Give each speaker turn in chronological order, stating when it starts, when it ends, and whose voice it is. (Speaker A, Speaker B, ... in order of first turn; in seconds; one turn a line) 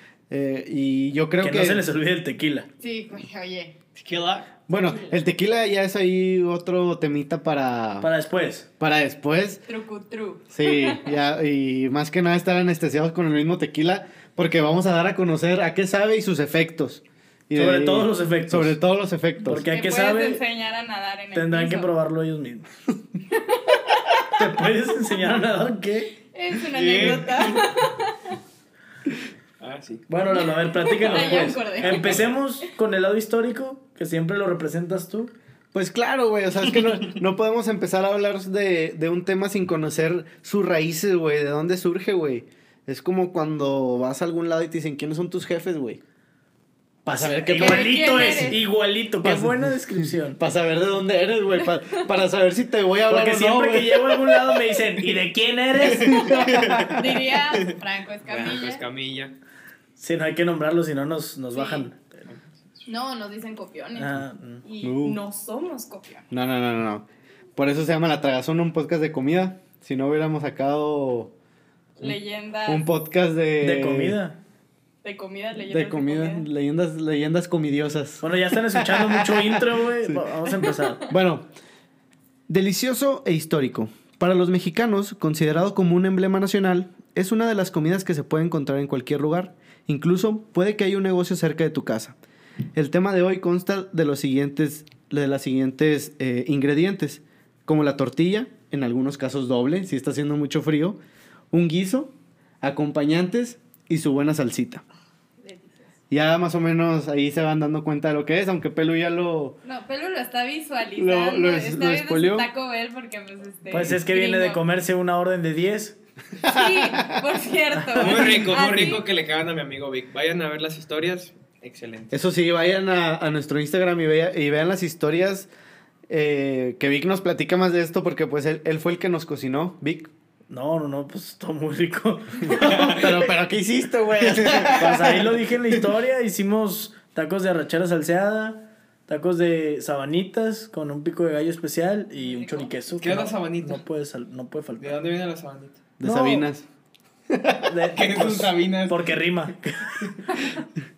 Speaker A: 0.3-1.8
Speaker B: 1.4-2.7
Speaker C: 2.8-3.7
Speaker D: 4.0-4.5
Speaker A: 4.7-8.1
Speaker B: 8.0-8.7
Speaker A: 8.8-9.6
Speaker C: 9.7-11.1
Speaker A: 10.5-19.7
Speaker B: 17.5-18.8
Speaker B: 19.5-20.4
Speaker C: 19.7-21.9
Speaker B: 21.3-22.7
Speaker C: 23.4-24.1
Speaker B: 24.3-26.1
Speaker C: 26.3-28.3
Speaker D: 26.7-27.7
Speaker D: 29.6-30.0
Speaker B: 30.1-35.3
Speaker C: 30.3-32.2
Speaker D: 31.0-32.3
Speaker A: 35.7-46.0
Speaker A: 47.0-48.4
Speaker B: 47.1-50.4
Speaker C: 47.5-48.6
Speaker A: 49.2-54.1
Speaker B: 53.1-56.3
Speaker C: 55.8-58.8
Speaker D: 56.3-57.7
Speaker D: 58.3-59.4
Speaker B: 60.0-62.0
Speaker C: 61.5-61.9
Speaker C: 62.9-66.3
Speaker B: 64.0-64.6
Speaker A: 64.8-65.2
Speaker A: 66.3-67.1
Speaker A: 67.6-71.3
Speaker C: 72.0-72.9
Speaker A: 72.7-74.2
Speaker B: 73.6-74.4
Speaker C: 75.0-76.5
Speaker A: 75.7-80.3
Speaker B: 78.2-81.1
Speaker A: 81.1-81.5
Speaker A: 82.5-92.2
Speaker A: 92.8-101.0
Speaker A: 101.5-104.8
Speaker C: 105.4-105.9
Speaker A: 106.1-109.6
Speaker C: 109.6-114.6
Speaker A: 111.0-112.5
Speaker B: 113.7-116.0
Speaker C: 116.4-119.0
Speaker A: 116.5-117.0
Speaker B: 117.8-118.6
Speaker D: 118.0-122.1
Speaker A: 122.1-125.5
Speaker A: 126.1-130.1
Speaker B: 130.5-133.1
Speaker D: 132.5-133.2
Speaker A: 132.8-135.4
Speaker D: 134.2-134.7
Speaker B: 134.7-145.0
Speaker C: 142.2-142.7
Speaker D: 143.0-143.8
Speaker D: 144.8-145.8
Speaker A: 146.0-146.7
Speaker B: 146.0-146.5
Speaker A: 147.3-147.8
Speaker B: 147.7-150.1
Speaker D: 147.9-149.2